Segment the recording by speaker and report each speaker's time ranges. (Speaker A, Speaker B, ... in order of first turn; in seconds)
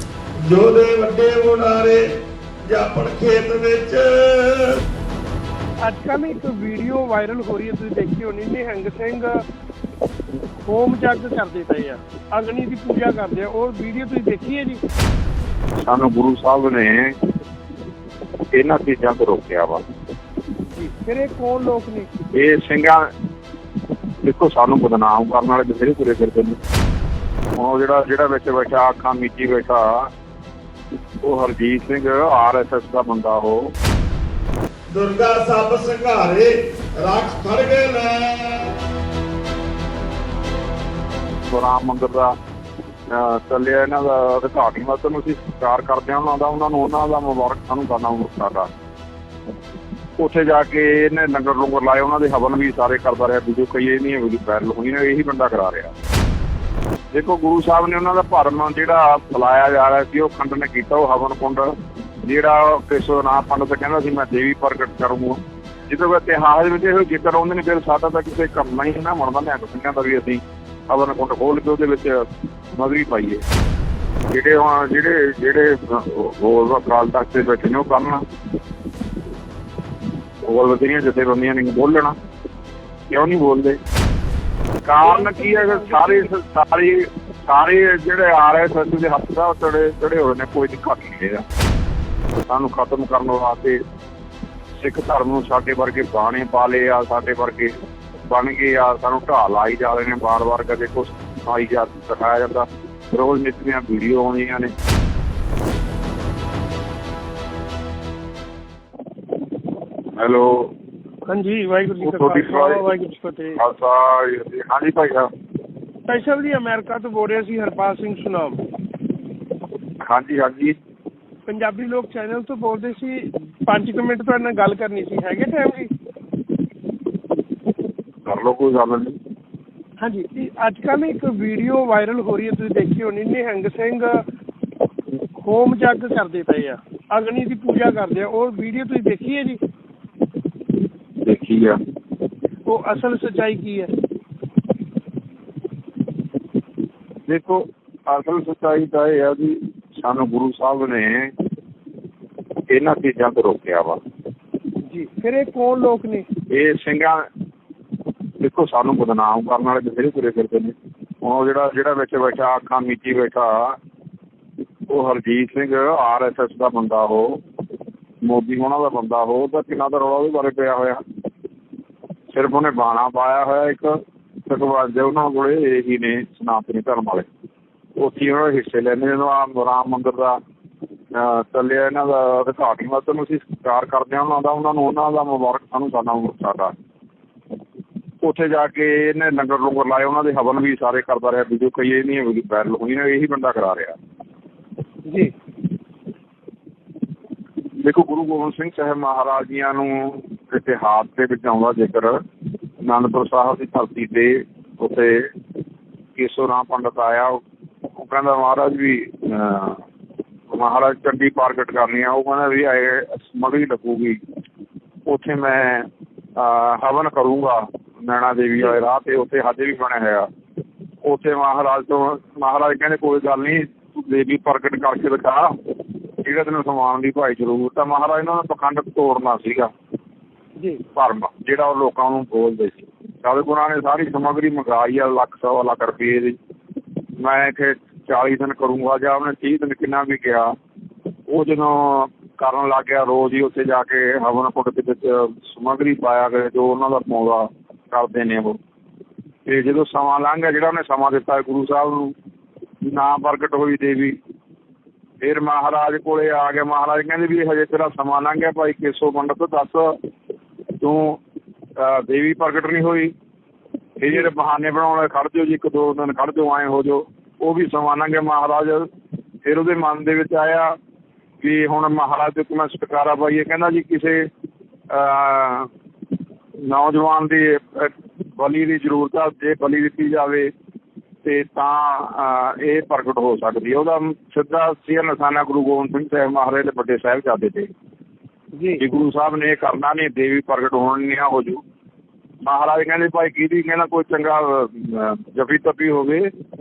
Speaker A: 0.4-2.1, 2.6-4.8, 34.9-38.7
Speaker B: 5.8-9.4, 10.6-14.8, 20.7-22.1, 85.0-86.3, 111.3-113.6, 116.1-118.6, 121.5-125.9, 130.0-134.2, 135.4-139.6, 142.7-143.9, 154.8-156.3, 195.1-195.3, 288.6-288.8
Speaker C: 15.8-17.2, 18.5-19.8, 22.3-23.1, 24.2-26.6, 27.6-30.1, 31.2-33.7, 41.5-42.3, 43.1-48.7, 50.2-55.9, 57.1-61.7, 62.2-73.4, 74.3-78.2, 80.5-82.2, 83.1-83.8, 84.8-91.4, 92.3-93.8, 94.8-97.7, 98.3-104.7, 110.2-110.7, 112.0-112.8, 113.6-115.3, 120.0-120.8, 128.2-129.2, 141.2-141.8, 147.3-151.3, 152.7-154.0, 156.5-157.3, 158.4-163.8, 164.9-167.4, 168.2-171.0, 172.3-177.3, 178.0-180.4, 181.1-186.7, 188.2-194.0, 197.8-202.2, 202.8-205.3, 206.2-207.4, 208.0-209.8, 210.5-214.2, 215.1-220.3, 221.0-225.5, 226.2-229.7, 230.9-236.4, 237.2-240.6, 241.3-248.6, 249.5-252.1, 252.9-254.2, 255.2-260.0, 260.8-261.2, 261.8-263.1, 264.0-268.9, 269.4-270.7, 271.4-274.3, 274.9-275.7, 276.6-280.5, 281.2-287.7, 288.8-291.6, 292.4-296.3